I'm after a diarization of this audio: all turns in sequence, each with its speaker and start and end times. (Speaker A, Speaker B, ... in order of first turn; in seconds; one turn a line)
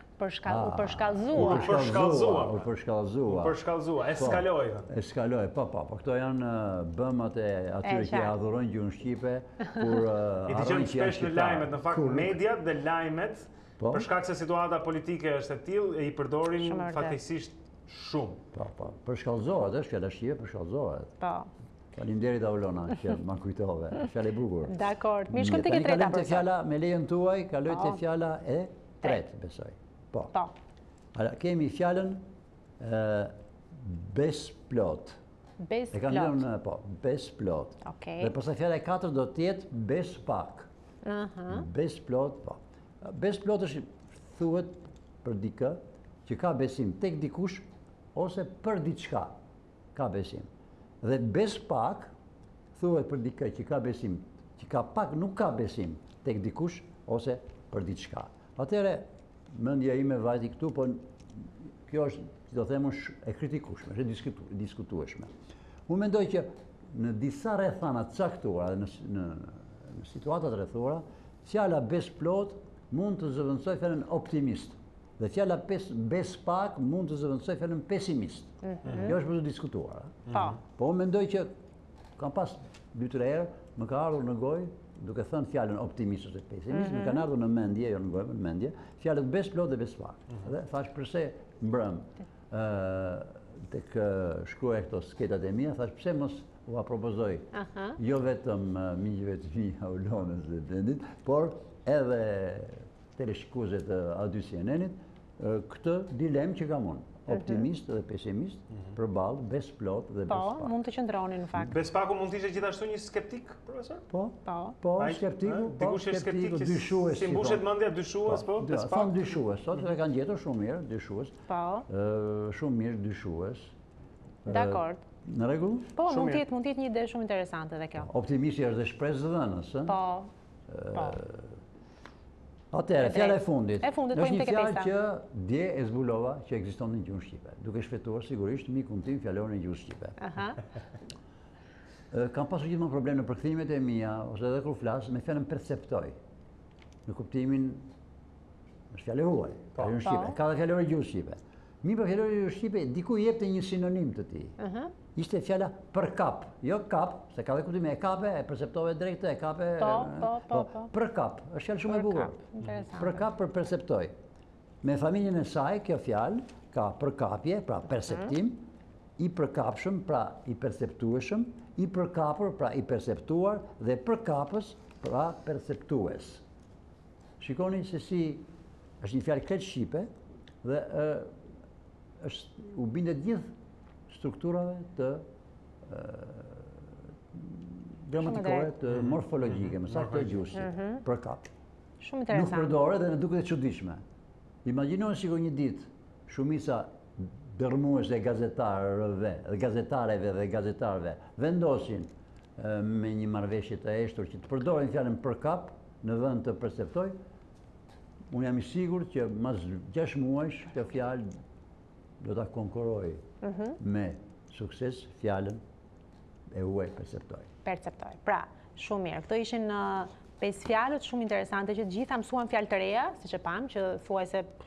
Speaker A: 0.2-1.8
Speaker B: 0.5-3.6
Speaker C: 1.3-2.7
Speaker C: 3.2-4.9
Speaker B: 4.1-12.4
Speaker A: 7.8-8.3
Speaker C: 10.5-18.4
Speaker B: 13.8-14.1
Speaker A: 16.6-17.2
Speaker B: 18.5-21.1
Speaker A: 21.2-21.5
Speaker B: 21.9-30.3
Speaker A: 24.7-26.5
Speaker A: 27.7-28.0
Speaker B: 31.1-32.2
Speaker B: 32.8-35.2
Speaker A: 35.6-36.5
Speaker B: 35.9-40.7
Speaker A: 37.8-38.3
Speaker A: 41.0-41.7
Speaker B: 41.5-49.4
Speaker B: 49.9-50.5
Speaker B: 51.0-52.1
Speaker B: 52.8-65.3
Speaker B: 65.9-81.5
Speaker A: 78.6-79.2
Speaker C: 78.9-79.2
Speaker A: 80.3-80.6
Speaker B: 82.2-110.8
Speaker A: 86.7-87.2
Speaker A: 97.5-98.0
Speaker A: 107.3-107.7
Speaker A: 110.3-111.8
Speaker C: 111.7-114.0
Speaker B: 114.1-117.7
Speaker A: 114.5-114.8
Speaker C: 115.0-119.2
Speaker B: 118.2-121.3
Speaker A: 121.5-121.9
Speaker B: 121.9-123.7
Speaker B: 124.5-126.0
Speaker A: 124.5-125.0
Speaker A: 126.0-128.1
Speaker C: 126.1-126.4
Speaker B: 128.0-130.0
Speaker A: 129.9-130.3
Speaker B: 130.7-131.6
Speaker B: 132.7-140.2
Speaker A: 133.0-134.9
Speaker A: 140.2-140.6
Speaker B: 142.1-146.1
Speaker B: 147.1-147.8
Speaker B: 148.9-154.6
Speaker A: 150.0-150.4
Speaker A: 154.6-154.9
Speaker B: 155.2-164.1
Speaker A: 159.8-160.9
Speaker A: 162.0-163.3
Speaker B: 164.8-168.6
Speaker B: 169.2-176.4
Speaker B: 177.4-178.5
Speaker B: 179.0-180.1
Speaker B: 180.6-181.3
Speaker B: 182.2-183.5
Speaker B: 184.1-185.2
Speaker B: 185.8-186.8
Speaker B: 187.3-191.5
Speaker A: 188.2-188.7
Speaker C: 188.9-190.5
Speaker A: 190.6-191.0
Speaker A: 192.0-192.8
Speaker B: 192.3-194.0
Speaker B: 194.7-207.2
Speaker B: 208.3-211.3
Speaker B: 212.2-213.2
Speaker A: 213.4-213.8
Speaker B: 213.8-215.6
Speaker B: 216.5-217.5
Speaker A: 217.7-224.5